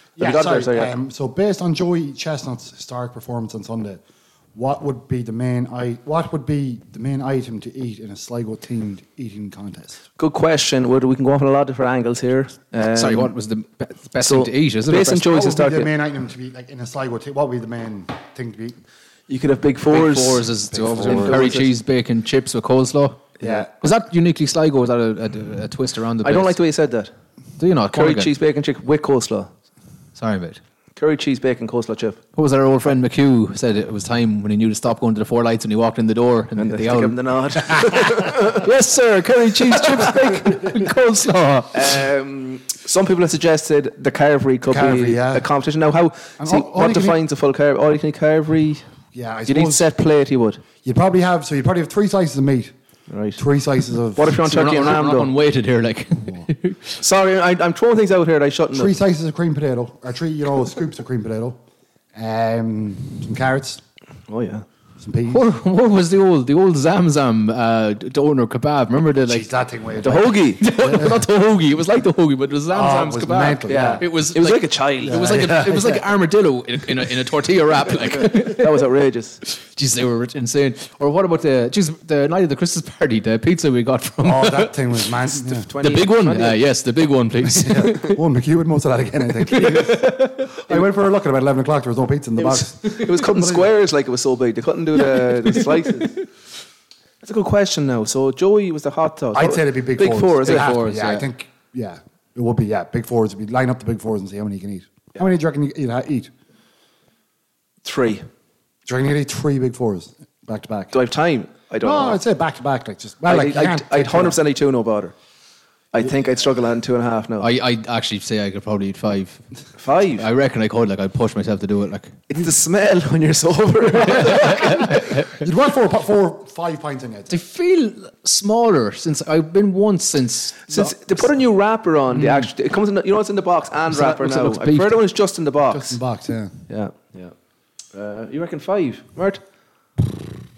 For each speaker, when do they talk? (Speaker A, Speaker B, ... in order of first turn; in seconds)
Speaker A: 0.2-4.0, 4.5-10.0, 15.2-18.8, 20.7-21.5, 23.4-23.7, 44.7-45.5, 46.4-47.2, 49.1-49.9, 50.8-52.7, 53.4-54.5, 58.7-61.6, 62.1-63.8, 65.0-65.5, 69.2-71.2, 72.7-74.1, 75.0-76.0, 84.2-85.7, 87.5-93.6, 99.3-106.3, 108.8-110.9, 111.8-114.4, 124.5-127.3, 135.7-136.5
Speaker B: 0.2-0.9, 10.2-13.3, 14.2-15.9, 19.3-20.5, 21.0-21.7, 23.4-23.6, 26.2-27.1, 27.9-29.5, 30.9-32.2, 36.6-40.6, 41.7-48.9, 49.5-50.6, 53.1-53.4, 54.1-55.3, 57.0-58.9, 64.3-64.7, 70.0-70.7, 73.7-75.4, 78.3-79.4, 85.6-86.6, 92.4-96.2, 97.2-100.7, 107.8-108.2, 110.9-112.2, 113.2-115.1, 115.9-117.5, 119.8-120.2, 122.3-124.8, 130.7-136.0, 136.7-137.3, 137.9-139.4
Speaker C: 12.9-15.3, 19.9-26.6, 27.6-28.3, 30.1-30.6, 32.4-41.7, 54.4-57.0, 65.3-69.5, 70.6-78.7, 79.5-85.0, 85.8-88.2, 89.5-90.5, 100.4-101.3, 117.4-119.4, 120.2-122.2, 124.2-125.2, 127.3-131.3, 132.2-132.5, 133.9-135.0